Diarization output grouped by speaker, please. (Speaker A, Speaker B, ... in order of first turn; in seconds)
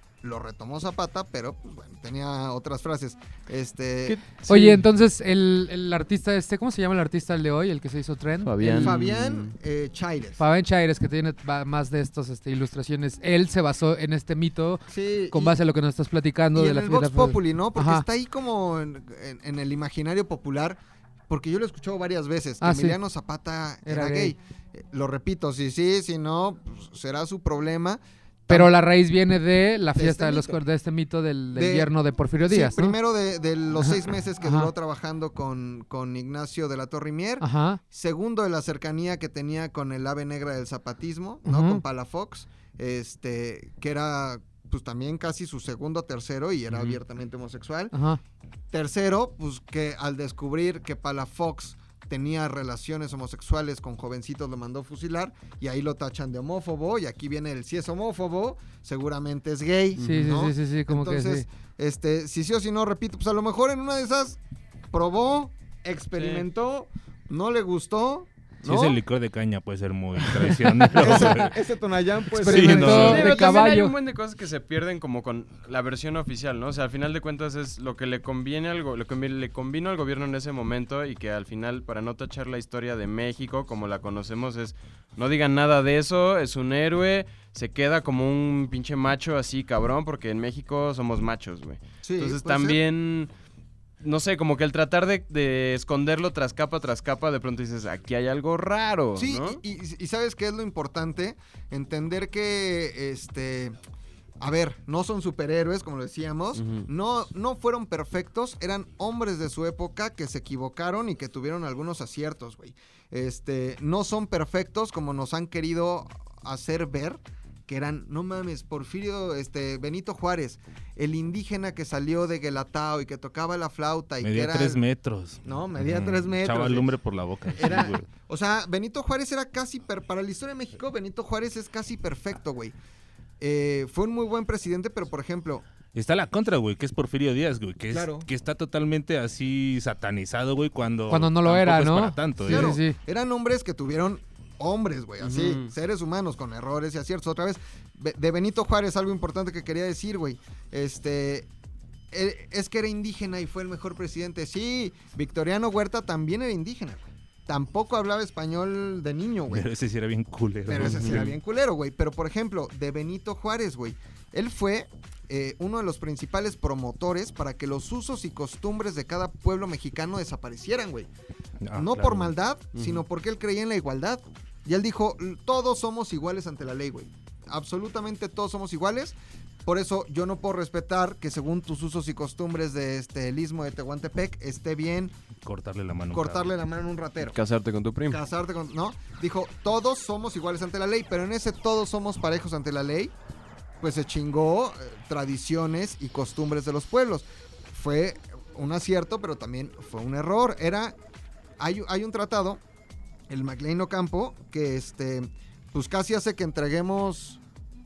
Speaker A: 0.2-4.2, 8.7-10.4, 14.9-15.6, 16.5-28.7, 29.9-30.6, 31.6-31.9, 32.5-48.0, 48.7-64.4, 64.9-69.0, 71.0-73.7, 92.0-92.8, 99.2-103.8, 104.4-124.8, 125.4-126.9, 127.5-132.8, 133.4-135.7, 137.9-138.3, 142.5-151.5, 152.1-159.7, 160.7-171.1, 171.7-185.1, 186.1-187.4, 188.1-193.1, 193.8-200.9, 201.6-202.6, 203.3-207.4
Speaker B: 4.1-4.8, 8.4-9.5, 46.7-47.0, 60.0-60.3, 66.2-66.5, 70.3-70.9, 72.8-93.3, 94.0-99.6, 106.6-106.9, 145.2-145.7, 160.8-161.3, 172.8-173.0, 187.3-188.2
Speaker C: 4.5-8.9, 10.4-18.1, 22.6-23.0, 23.9-24.4, 28.5-33.0, 33.8-34.7, 37.4-37.8, 41.5-41.8, 47.9-48.2, 60.0-61.5, 72.4-73.9, 141.1-143.0
Speaker D: 68.6-71.6, 72.4-73.3, 124.2-128.1, 135.9-142.8, 159.5-161.3, 171.6-172.3, 185.4-186.5